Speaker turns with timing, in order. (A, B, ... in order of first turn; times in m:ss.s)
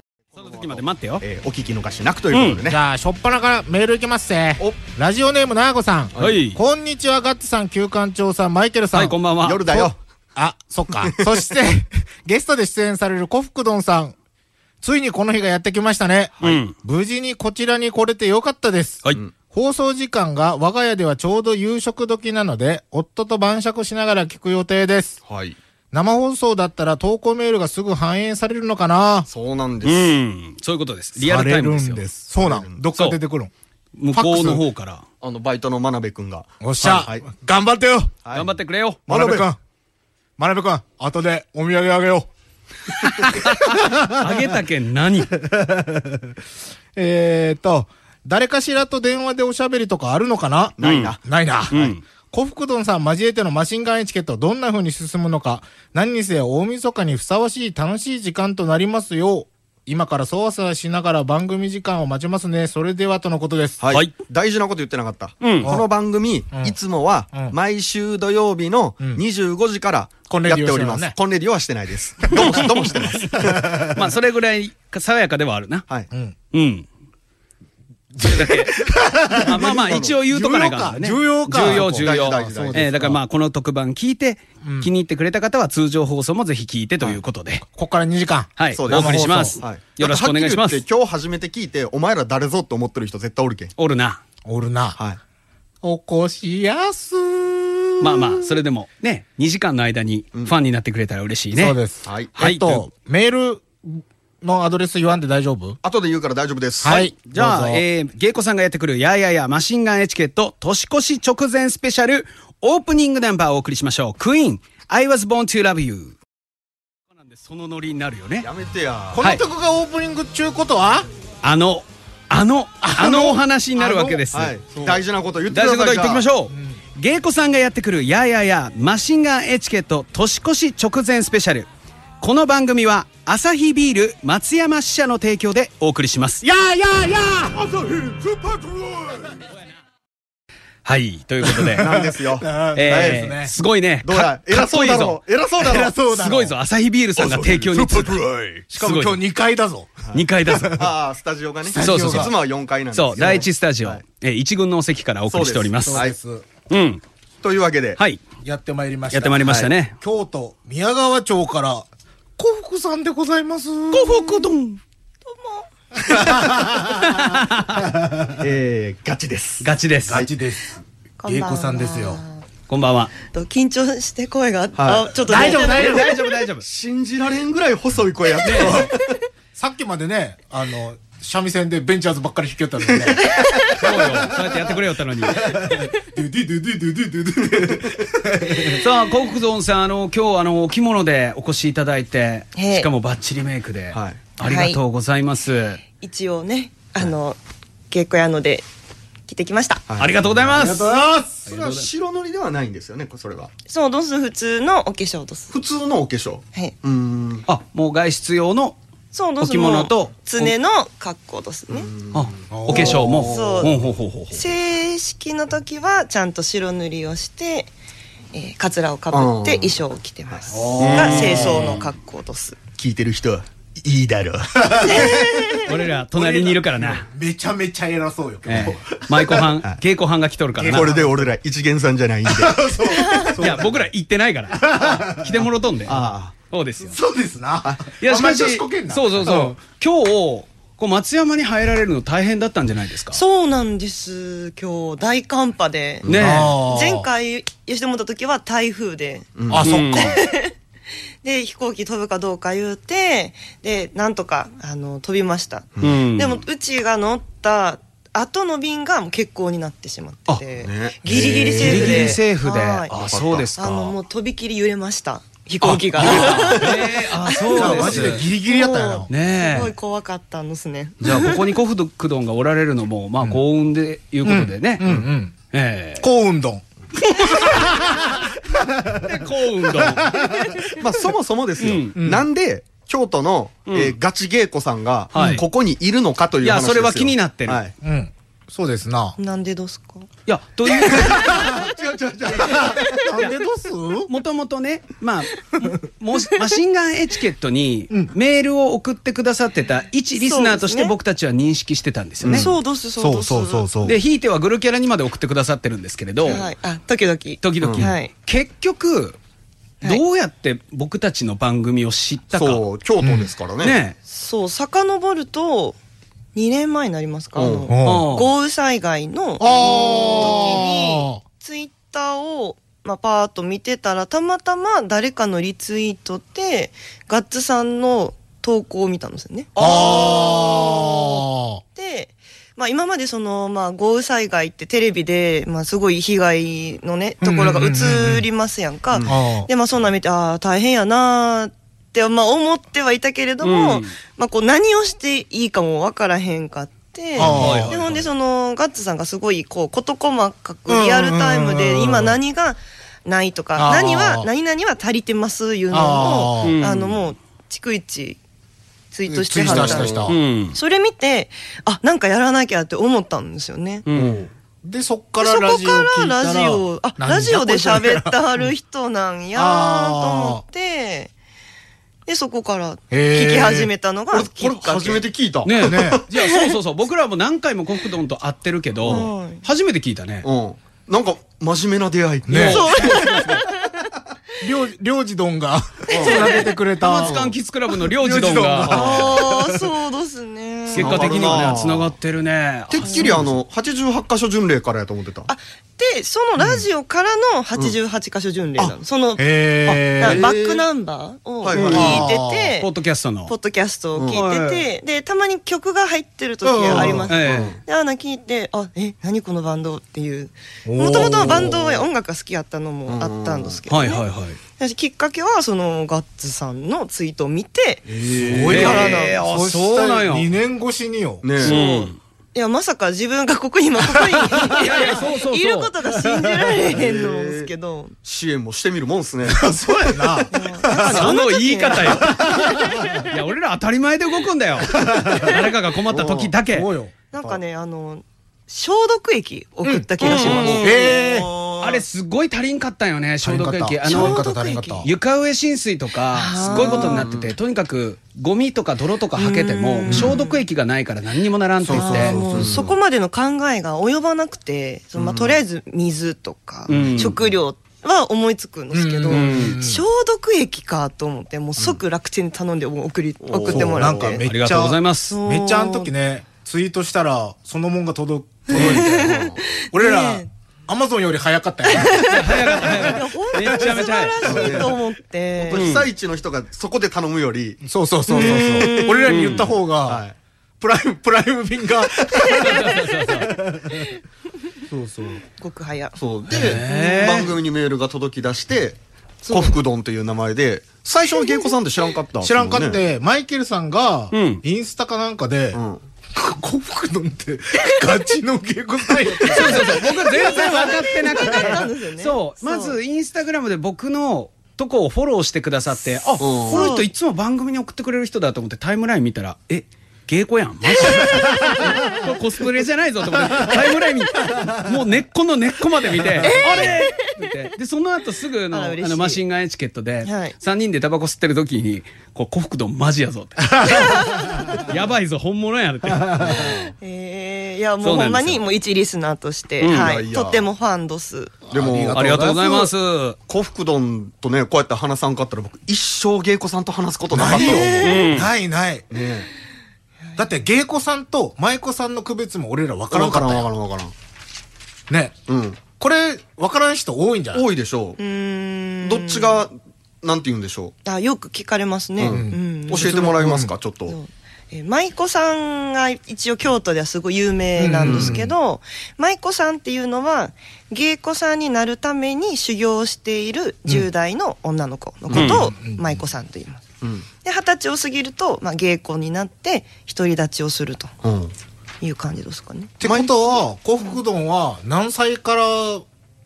0:00.3-0:01.2 A
0:00.4-0:02.8 B
0:02.3-0:02.6 A
0:02.7-0:09.2 C
0:06.2-0:06.4 B
0:06.2-0:06.6 A
0:08.9-0:09.7 A
0:09.4-0:10.0 B
0:09.7-0:14.2 C
0:11.0-0:11.4 B
0:14.8-0:25.2 C
0:16.4-0:16.7 A
0:25.3-0:25.6 B
0:25.9-0:29.3 C
0:29.3-0:30.2 B
0:29.8-0:32.0 A
0:31.2-0:33.5 C
0:31.8-0:32.8 B
0:34.0-0:35.0 A
0:34.1-0:34.6 C
0:35.2-0:37.3 B
0:36.6-0:38.1 C
0:38.2-0:38.5 B
0:38.3-0:39.1 A
0:39.1-0:39.5 B
0:39.1-0:39.6 C
0:40.4-0:42.3 C
0:43.2-0:44.6 C
0:43.2-0:45.4 A
0:45.3-0:46.4 C
0:47.0-1:03.8 C
0:50.8-0:51.2 B
0:50.8-0:51.2 A
0:51.7-0:52.0 A
1:03.8-1:13.9 B
1:05.4-1:05.8 A
1:05.6-1:05.9 C
1:10.3-1:11.1 C
1:12.4-1:12.6 A
1:12.4-1:12.7 C
1:13.4-1:13.9 C
1:13.9-1:15.9 A
1:16.5-1:16.9 A
1:18.1-1:23.2 C
1:18.2-1:27.6 A
1:19.4-1:20.2 B
1:21.6-1:22.9 B
1:24.6-1:24.9 C
1:27.7-1:29.6 C
1:28.6-1:30.8 A
1:28.7-1:33.7 B
1:33.8-1:34.2 A
1:34.4-1:35.0 C
1:35.8-1:38.5 C
1:38.0-1:41.8 A
1:41.6-1:45.8 C
1:42.0-1:42.3 B
1:42.4-1:42.8 A
1:45.8-1:47.1 B
1:46.8-1:47.8 C
1:46.9-1:56.1 A
1:57.1-1:58.5 A
1:58.4-1:59.2 B
1:59.1-2:01.1 C
2:01.4-2:04.6 A
2:02.8-2:05.0 C
2:04.3-2:06.3 B
2:05.5-2:11.7 A
2:06.5-2:06.8 C
2:12.2-2:16.4 A
2:16.4-2:17.8 C
2:17.6-2:19.4 B
2:20.8-2:22.0 A
2:21.4-2:23.5 C
2:21.7-2:23.2 B
2:22.7-2:25.2 A
2:24.0-2:25.9 B
2:25.6-2:26.5 C
2:26.0-2:29.2 A
2:27.2-2:28.6 B
2:28.7-2:30.9 C
2:30.0-2:34.0 B
2:30.1-2:30.9 A
2:31.6-2:32.4 C
2:31.8-2:32.4 A
2:32.9-2:36.0 A
2:35.3-2:36.2 B
2:35.8-2:36.4 C
2:36.7-2:37.0 A
2:37.4-2:38.0 B
2:38.4-2:41.9 C
2:39.1-2:40.0 A
2:39.4-2:39.7 B
2:42.4-2:44.4 C
2:43.9-2:44.8 A
2:45.2-2:45.7 D
2:46.0-2:48.4 C
2:46.8-2:47.8 A
2:48.4-2:50.3 B
2:49.6-2:50.2 A
2:50.1-2:52.2 C
2:51.2-2:52.4 D
2:52.7-2:53.1 A
2:53.2-2:56.1 D
2:54.8-2:55.1 B
2:55.1-2:56.2 C
2:55.2-2:56.6 A
2:56.6-2:59.0 B
2:58.4-2:58.9 A
2:58.6-2:58.9 C
2:58.8-2:59.2 D
2:59.6-3:08.9 C
3:03.2-3:03.8 D
3:03.7-3:05.8 A
3:08.6-3:15.8 A
3:12.6-3:12.9 D
3:13.9-3:14.2 B
3:14.4-3:14.8 D
3:16.0-3:17.4 D
3:17.9-3:18.6 D
3:19.3-3:19.8 D
3:19.9-3:20.5 B
3:20.0-3:20.9 A
3:20.6-3:21.5 C
3:21.5-3:21.9 A
3:21.5-3:23.5 B
3:23.7-3:25.5 D
3:25.5-3:27.4 B
3:27.5-3:28.8 A
3:29.1-3:31.9 D
3:29.4-3:30.5 A
3:31.7-3:33.7 B
3:32.1-3:34.4 A
3:32.5-3:33.3 C
3:33.3-3:33.8 D
3:34.3-3:37.7 D
3:38.3-3:42.6 D
3:39.1-3:39.8 B
3:40.3-3:41.4 B
3:40.5-3:41.6 C
3:40.8-3:41.8 A
3:42.8-3:45.0 B
3:44.6-3:45.5 C
3:44.8-3:45.8 D
3:45.6-3:47.1 A
3:46.2-3:49.6 C
3:48.4-3:51.0 A
3:50.6-3:51.3 C
3:50.7-3:52.6 B
3:52.2-3:53.8 C
3:52.9-3:53.4 D
3:53.4-3:56.0 A
3:54.5-3:55.5 C
3:55.8-3:56.3 B
3:56.5-3:57.0 A
3:56.8-3:59.6 C
3:57.6-3:58.0 B
3:58.0-4:03.2 A
4:03.1-4:09.3 D
4:06.0-4:06.4 B
4:06.0-4:06.5 A
4:06.2-4:07.1 C
4:09.4-4:09.9 B
4:09.5-4:10.1 C
4:09.6-4:10.2 A
4:09.8-4:10.5 D
4:11.2-4:31.5 D
4:15.8-4:16.0 B
4:15.8-4:16.4 A
4:20.3-4:22.2 B
4:21.1-4:23.9 A
4:22.9-4:23.5 B
4:25.6-4:28.3 A
4:26.2-4:26.8 C
4:27.4-4:29.1 C
4:29.1-4:29.7 A
4:31.0-4:34.9 A
4:34.2-4:35.3 C
4:35.5-4:36.1 A
4:36.0-4:40.8 C
4:39.0-4:40.1 A
4:40.7-4:47.7 B
4:41.6-4:42.0 A
4:42.0-4:42.2 C
4:43.7-4:43.9 A
4:45.1-4:45.4 A
4:45.2-4:45.4 C
4:46.4-4:47.6 A
4:47.8-4:49.2 C
4:49.2-4:50.1 D
4:50.3-4:51.3 A
4:50.7-4:53.0 B
4:50.7-4:51.7 D
4:50.9-4:51.6 C
4:52.3-4:54.1 C
4:52.7-4:53.2 D
4:54.1-5:02.5 A
5:00.2-5:00.9 D
5:02.2-5:02.5 B
5:02.3-5:03.7 D
5:03.0-5:04.0 C
5:03.8-5:06.5 A
5:06.2-5:08.1 D
5:07.4-5:09.2 A
5:07.6-5:07.9 B
5:09.8-5:12.6 A
5:12.3-5:13.8 B
5:13.0-5:13.3 C
5:13.6-5:14.0 A
5:14.1-5:15.8 D
5:16.3-5:31.1 D
5:17.3-5:17.7 B
5:17.7-5:18.1 C
5:17.8-5:18.3 A
5:19.4-5:21.2 C
5:20.2-5:20.5 B
5:29.6-5:30.4 B
5:29.6-5:31.6 C
5:31.8-5:58.2 D
5:37.2-5:38.2 C
5:39.0-5:39.5 C
5:43.4-5:43.9 A
5:47.2-5:47.7 C
5:47.2-5:47.8 B
5:47.2-5:48.0 A
5:50.7-5:52.2 C
5:53.6-5:54.3 C
5:55.7-5:56.6 C
5:56.4-5:57.0 A
5:58.9-6:00.0 D
5:59.1-6:00.2 C
5:59.4-6:00.2 B
6:00.1-6:00.6 A
6:00.5-6:03.8 D
6:03.8-6:04.3 A
6:03.9-6:04.3 B
6:04.6-6:08.5 C
6:05.2-6:11.1 D
6:09.3-6:10.4 C
6:12.1-6:15.0 D
6:12.9-6:13.7 C
6:14.1-6:16.0 B
6:15.4-6:20.3 A
6:15.6-6:16.1 C
6:16.2-6:16.5 D
6:18.8-6:19.1 B
6:18.9-6:19.4 D
6:20.2-6:22.6 B
6:22.3-6:23.0 C
6:22.3-6:23.4 A
6:22.5-6:23.7 D
6:24.4-6:27.2 C
6:25.9-6:26.5 D
6:25.9-6:26.4 B
6:26.8-6:28.8 A
6:27.0-6:27.3 B
6:27.8-6:29.6 C
6:28.6-6:29.1 B
6:28.7-6:31.5 D
6:30.7-6:33.2 A
6:30.7-6:31.9 B
6:32.7-6:35.3 B
6:32.8-6:33.2 D
6:35.3-6:39.2 D
6:39.2-6:40.2 C
6:40.0-6:42.7 D
6:40.0-6:40.6 B
6:41.4-6:42.0 B
6:41.5-6:42.1 A
6:41.7-6:42.5 C
6:42.6-6:43.3 A
6:43.3-6:54.0 D
6:44.0-6:44.2 B
6:44.1-6:44.7 A
6:46.4-6:47.1 C
6:46.6-6:47.6 B
6:47.1-6:47.6 A
6:50.6-6:51.8 C
6:51.0-6:51.5 B
6:52.9-6:53.6 B
6:53.7-6:54.4 A
6:54.6-6:57.8 D
6:57.9-6:58.8 B
6:58.2-7:01.5 C
6:58.5-6:59.2 D
6:58.5-7:00.3 A
7:01.2-7:01.6 B
7:01.4-7:02.0 A
7:01.5-7:07.9 D
7:03.9-7:04.6 C
7:04.6-7:05.7 A
7:05.9-7:06.6 C
7:06.6-7:07.5 B
7:08.0-7:10.3 B
7:09.3-7:11.1 C
7:10.3-7:13.1 D
7:10.8-7:12.2 A
7:11.8-7:13.0 C
7:13.0-7:16.7 A
7:14.6-7:15.4 C
7:15.9-7:16.3 B
7:16.5-7:16.9 C
7:17.1-7:20.6 D
7:19.6-7:21.3 C
7:20.0-7:21.0 A
7:20.0-7:21.8 B
7:21.6-7:32.4 A
7:23.2-7:24.9 C
7:23.8-7:24.9 D
7:26.1-7:27.1 D
7:26.4-7:27.3 B
7:29.2-7:30.4 D
7:29.9-7:30.1 C
7:31.7-7:32.4 C
7:31.7-7:32.7 B
7:31.7-7:44.2 D
7:34.9-7:35.4 B
7:36.7-7:37.4 B
7:36.7-7:37.2 A
7:38.7-7:39.8 C
7:39.1-7:39.5 A
7:39.3-7:39.5 B
7:43.2-7:44.2 B
7:43.4-7:53.0 C
7:44.2-7:45.1 A
7:45.1-7:45.9 D
7:48.5-7:50.3 D
7:48.5-7:49.4 B
7:51.7-7:55.8 D
7:52.0-7:54.6 A
7:54.2-7:54.8 B
7:55.4-8:00.1 B
7:55.5-7:55.9 A
7:57.6-8:00.0 C
7:58.1-7:59.1 D
7:59.1-7:59.5 A
8:00.6-8:03.9 C
8:02.4-8:03.3 A
8:04.7-8:05.2 B
8:05.4-8:06.0 D
8:06.0-8:08.8 B
8:06.3-8:07.3 A
8:06.7-8:07.3 D
8:09.2-8:09.6 D
8:09.3-8:12.8 B
8:11.1-8:11.5 D
8:12.2-8:15.6 C
8:14.1-8:14.4 A
8:15.5-8:15.8 B
8:16.1-8:21.6 C
8:19.2-8:22.8 D
8:19.3-8:44.0 A
8:26.2-8:26.7 B
8:26.5-8:26.9 D
8:30.9-8:31.6 D
8:31.0-8:32.0 C
8:33.2-8:33.5 C
8:34.4-8:34.6 C
8:36.2-8:37.5 D
8:38.5-8:39.2 D
8:40.0-8:40.4 D
8:43.4-8:44.6 C
8:43.6-8:44.7 D
8:44.5-8:46.6 A
8:45.9-8:46.5 C
8:46.2-8:46.6 B
8:46.8-8:51.4 D
8:47.8-8:48.4 A
8:49.6-8:49.9 A
8:49.7-8:50.4 B
8:51.5-8:52.7 C
8:51.5-8:52.2 B
8:51.9-8:53.2 A
8:53.3-8:57.9 B
8:57.1-8:58.9 C
8:57.2-8:58.1 D
8:57.8-8:58.3 A
8:58.9-8:59.3 B
9:00.2-9:03.5 C
9:02.9-9:03.9 B
9:04.9-9:05.1 C
9:05.3-9:05.6 B
9:05.8-9:07.4 C
9:07.3-9:08.0 B
9:08.0-9:09.4 D
9:08.8-9:10.7 B
9:10.8-9:13.1 D
9:12.0-9:13.9 B
9:12.0-9:13.5 C
9:13.9-9:26.6 D
9:17.6-9:18.3 C
9:17.8-9:18.2 B
9:25.1-9:25.5 B
9:25.1-9:25.5 A
9:25.4-9:25.8 C
9:26.8-9:27.0 B
9:27.2-9:30.9 D
9:31.0-9:31.3 B
9:31.8-9:32.7 D
9:32.8-9:35.8 C
9:32.8-9:33.1 B